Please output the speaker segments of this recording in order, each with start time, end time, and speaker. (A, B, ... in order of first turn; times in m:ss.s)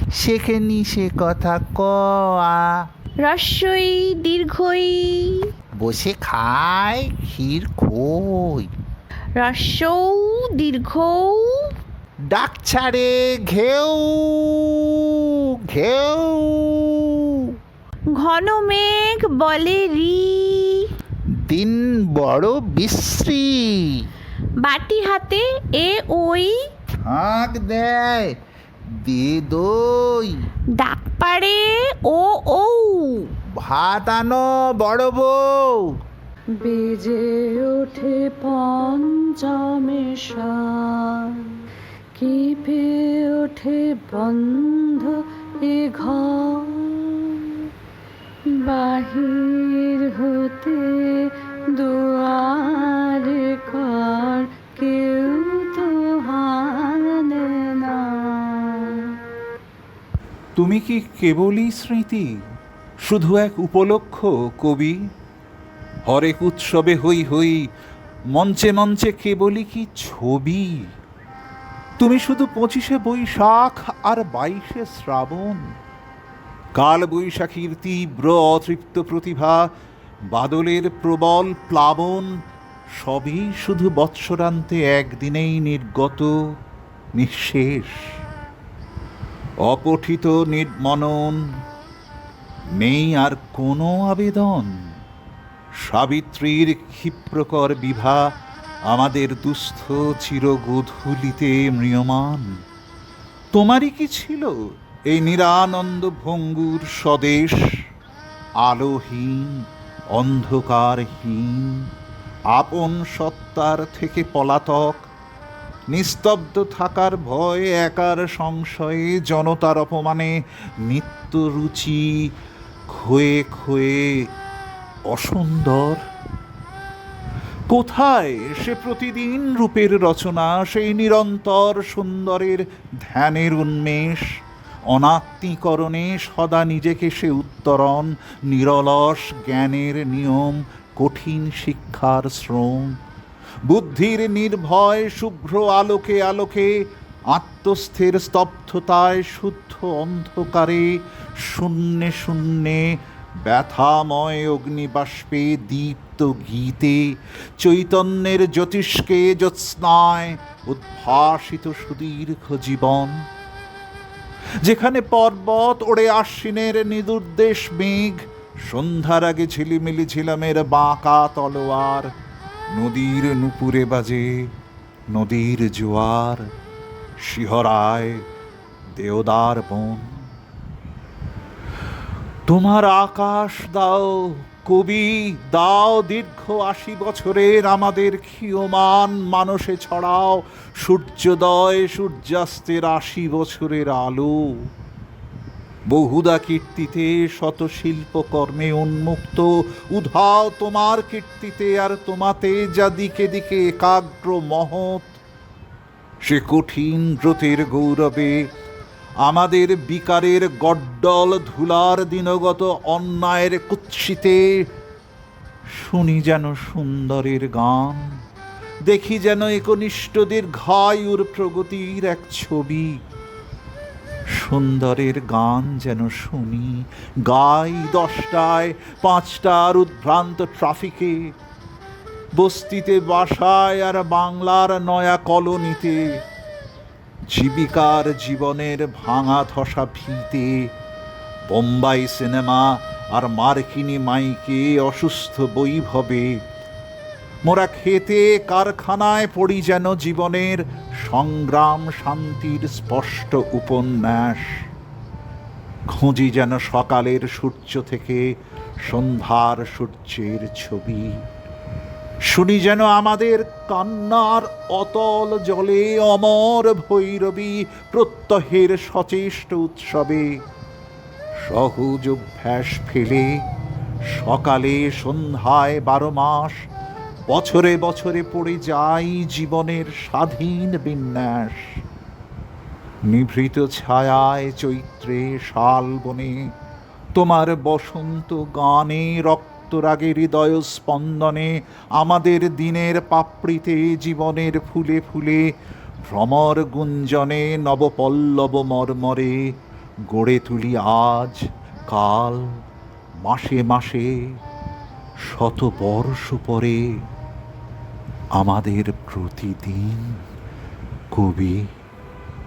0:00.2-0:02.8 A
0:03.2-0:05.5 B
0:05.8-0:08.7 A
0:09.4-0:11.7 B
0:12.3-0:17.5 A
0:18.1-0:20.9 B
0:21.5-0:24.1 A
0:24.6-0:26.6 B
0:27.0-0:28.3 A
0:29.0-0:30.5 A
0:30.7-0:33.3 B
0:33.6-0:35.9 A
0:36.6-0:41.4 C
0:42.2-0:47.1 C
0:47.3-0:47.6 B
0:48.6-0:59.2 C
1:00.6-1:02.3 D
1:03.0-1:05.0 D
1:06.1-1:07.7 D
1:08.3-1:10.7 D
1:12.0-1:15.7 D
1:16.8-1:19.7 D
1:20.3-1:22.3 D
1:23.0-1:26.3 D
1:27.2-1:28.0 D
1:29.6-1:31.4 D
1:32.8-1:34.9 D
1:35.8-1:38.3 D
1:38.9-1:42.6 D
1:43.5-1:44.6 D
1:45.1-1:47.6 D
1:48.6-1:51.9 D
1:52.5-1:55.0 D
1:55.9-2:02.3 D
2:02.9-2:04.3 D
2:05.1-2:06.0 D
2:07.7-2:14.4 D
2:14.9-2:23.0 D
2:23.7-2:43.2 D
2:44.6-2:52.1 D
2:52.7-2:54.5 D
2:55.1-2:56.5 D
2:57.2-2:58.2 D
2:59.0-3:00.3 D
3:02.5-3:14.6 D
3:15.9-3:25.2 D
3:26.2-3:28.4 D
3:29.2-3:34.6 D
3:35.7-3:38.2 D
3:38.9-3:43.0 D
3:44.3-3:51.3 D
3:52.4-3:56.2 D
3:57.3-4:00.7 D
4:01.5-4:06.4 D
4:07.4-4:14.5 D
4:15.9-4:18.3 D
4:18.9-4:21.2 D
4:22.3-4:30.4 D
4:31.5-4:33.4 D
4:34.1-4:36.6 D
4:37.3-4:41.8 D
4:43.1-4:46.4 D
4:47.2-4:55.5 D
4:56.1-4:59.5 D
5:00.1-5:02.6 D
5:03.2-5:04.3 D
5:05.3-5:07.0 D
5:08.4-5:10.2 D
5:11.1-5:11.7 D